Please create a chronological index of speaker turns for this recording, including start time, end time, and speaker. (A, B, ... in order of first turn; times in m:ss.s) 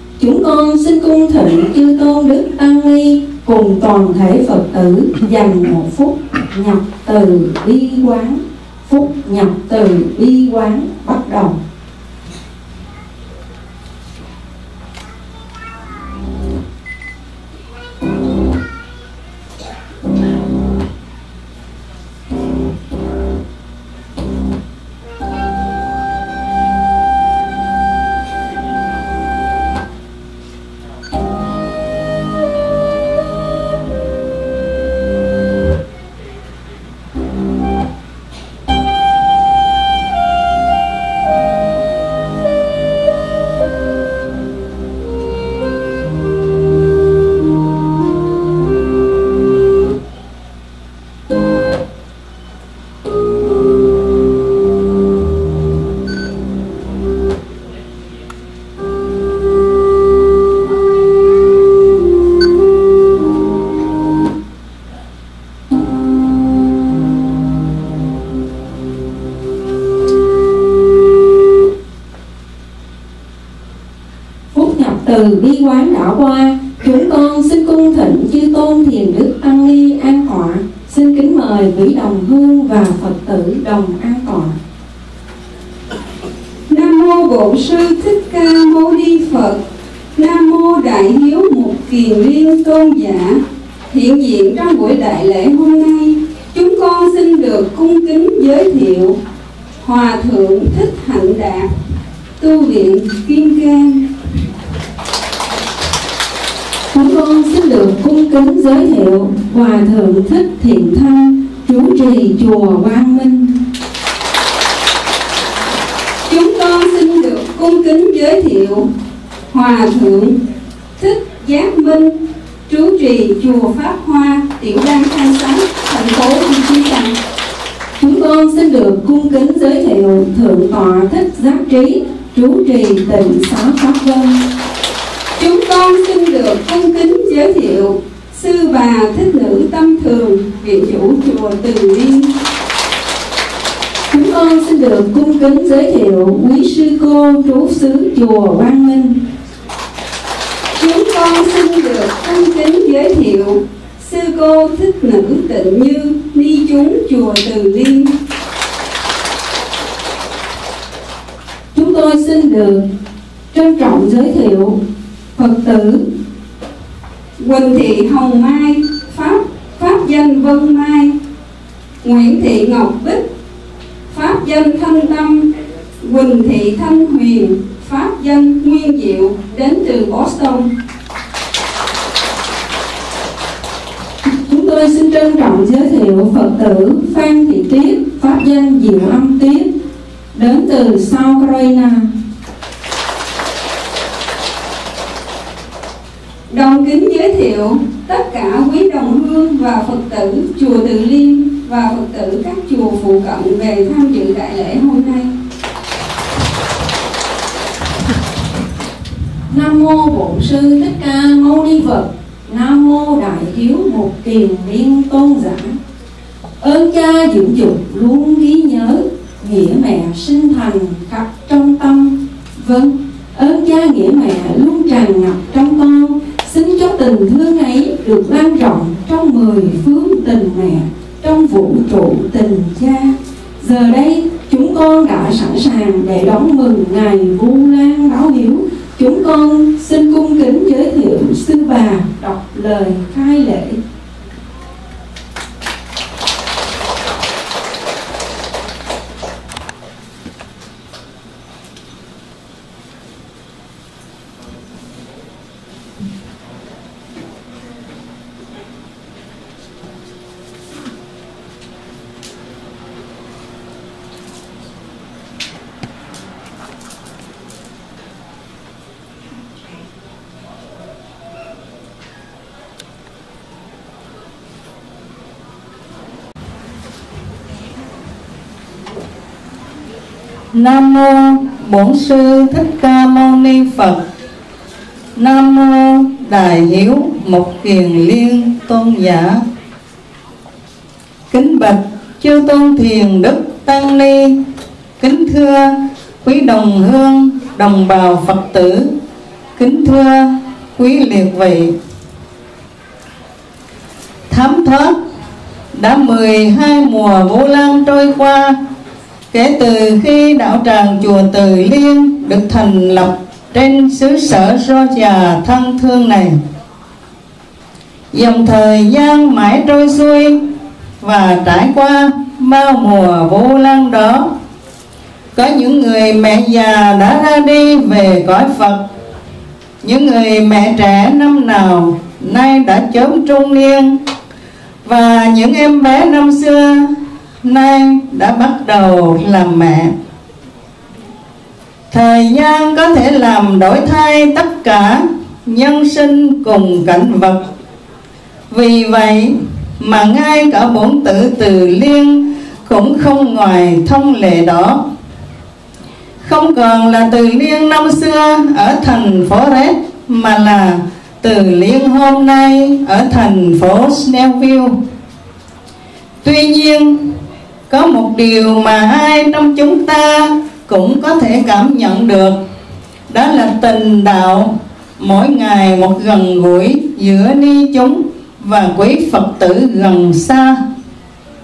0:00.2-0:11.6 A
1:14.5-1:24.6 A
1:26.7-1:29.6 B
1:30.2-1:39.2 B
1:39.8-1:41.7 B
1:42.4-1:44.1 B
1:46.9-1:53.6 A
1:56.2-1:58.9 B
1:59.5-2:00.4 B
2:01.0-2:07.2 B
2:08.0-2:14.4 A
2:15.4-2:22.3 B
2:24.1-2:29.2 A
2:30.8-2:38.2 B
2:41.7-2:42.9 A
2:43.5-2:44.8 A
2:45.4-2:46.0 A
2:47.4-2:51.2 B
2:52.0-2:53.3 B
2:54.1-2:55.5 B
2:56.0-3:00.7 B
3:04.3-3:09.7 A
3:10.3-3:12.1 A
3:16.5-3:25.3 B
3:29.5-3:35.8 A
3:36.6-4:03.8 A
4:40.6-4:44.0 C
4:45.2-4:49.4 C
4:51.3-4:54.4 C
4:55.0-4:58.9 C
4:59.6-5:01.7 C
5:04.3-5:05.0 C
5:05.7-5:08.6 C
5:09.3-5:16.4 C
5:18.1-5:20.4 C
5:21.0-5:24.3 C
5:25.4-5:28.8 C
5:29.8-5:34.0 C
5:34.8-5:39.9 C
5:41.9-5:47.5 C
5:48.5-5:54.8 C
5:56.2-6:04.8 C
6:06.2-6:07.0 C
6:07.7-6:12.4 C
6:13.1-6:20.6 C